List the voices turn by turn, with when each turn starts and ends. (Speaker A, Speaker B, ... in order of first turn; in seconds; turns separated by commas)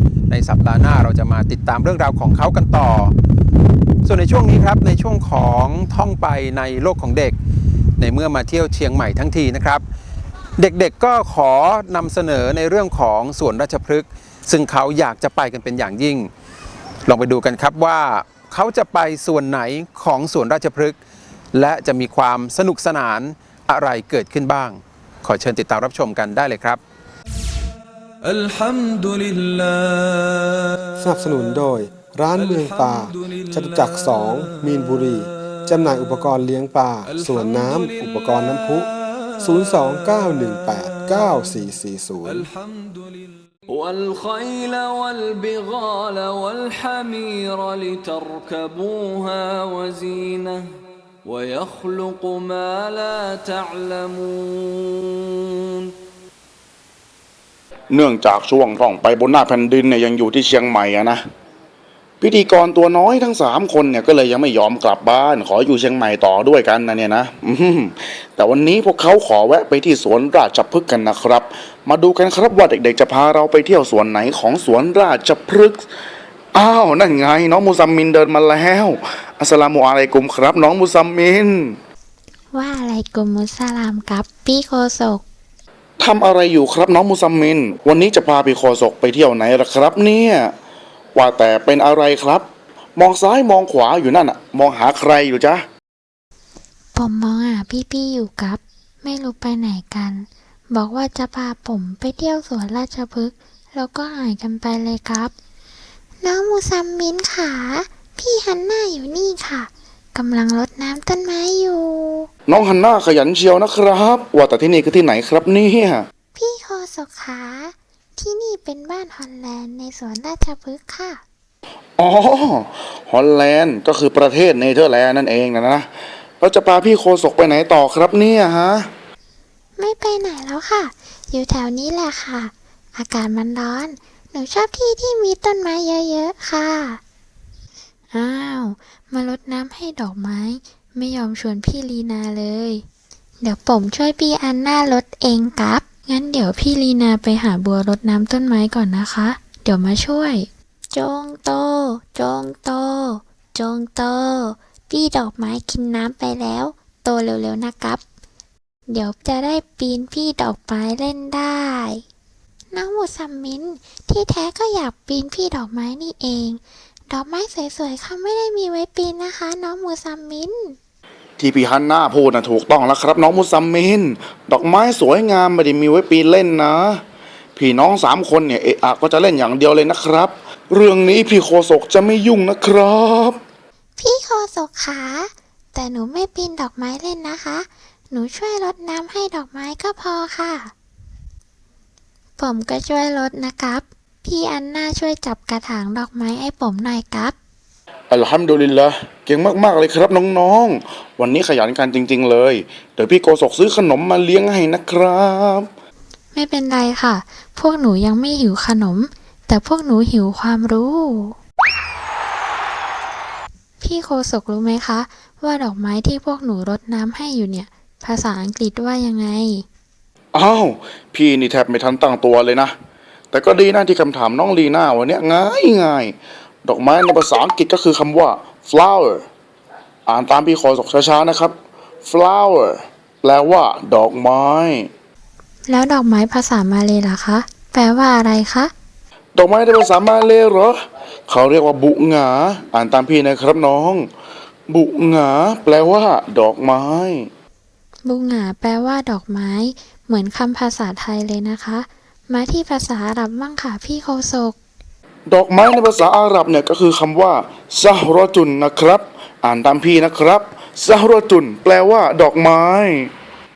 Speaker A: 0.3-3.1, Speaker A: 4.0-7.3, Speaker A: 8.0-9.8, Speaker A: 10.6-16.3, Speaker A: 17.1-21.0, Speaker A: 21.5-26.8, Speaker B: 28.2-31.3, Speaker C: 31.0-38.9, Speaker B: 32.3-36.2, Speaker B: 37.1-41.6, Speaker C: 39.4-42.5, Speaker B: 42.2-50.7, Speaker B: 51.2-55.9, Speaker D: 57.9-61.2, Speaker D: 62.2-75.8, Speaker D: 76.5-81.8, Speaker E: 82.6-85.2, Speaker D: 86.0-90.5, Speaker D: 91.2-92.4, Speaker D: 93.0-95.6, Speaker E: 97.0-100.2, Speaker E: 100.8-105.3, Speaker E: 106.3-109.7, Speaker E: 110.2-112.3, Speaker D: 112.5-116.1, Speaker E: 116.4-121.2, Speaker D: 122.0-125.9, Speaker D: 126.4-128.8, Speaker E: 129.8-132.5, Speaker E: 133.1-136.9, Speaker E: 138.2-142.8, Speaker E: 143.5-150.4, Speaker E: 151.0-158.0, Speaker E: 159.0-161.9, Speaker E: 162.8-166.6, Speaker E: 167.2-170.8, Speaker D: 171.4-177.0, Speaker D: 177.6-183.4, Speaker E: 184.0-185.2, Speaker E: 185.8-187.6, Speaker E: 188.2-190.7, Speaker E: 192.4-197.3, Speaker D: 198.1-205.7, Speaker E: 206.4-211.3, Speaker E: 213.8-219.6, Speaker D: 220.3-222.7, Speaker D: 223.3-226.1, Speaker D: 226.7-229.2, Speaker D: 230.1-231.5, Speaker D: 232.1-234.9, Speaker E: 235.8-238.7, Speaker D: 239.4-240.8, Speaker D: 241.3-244.0, Speaker D: 244.7-247.3, Speaker E: 248.1-251.8, Speaker E: 252.3-254.5, Speaker D: 255.3-263.1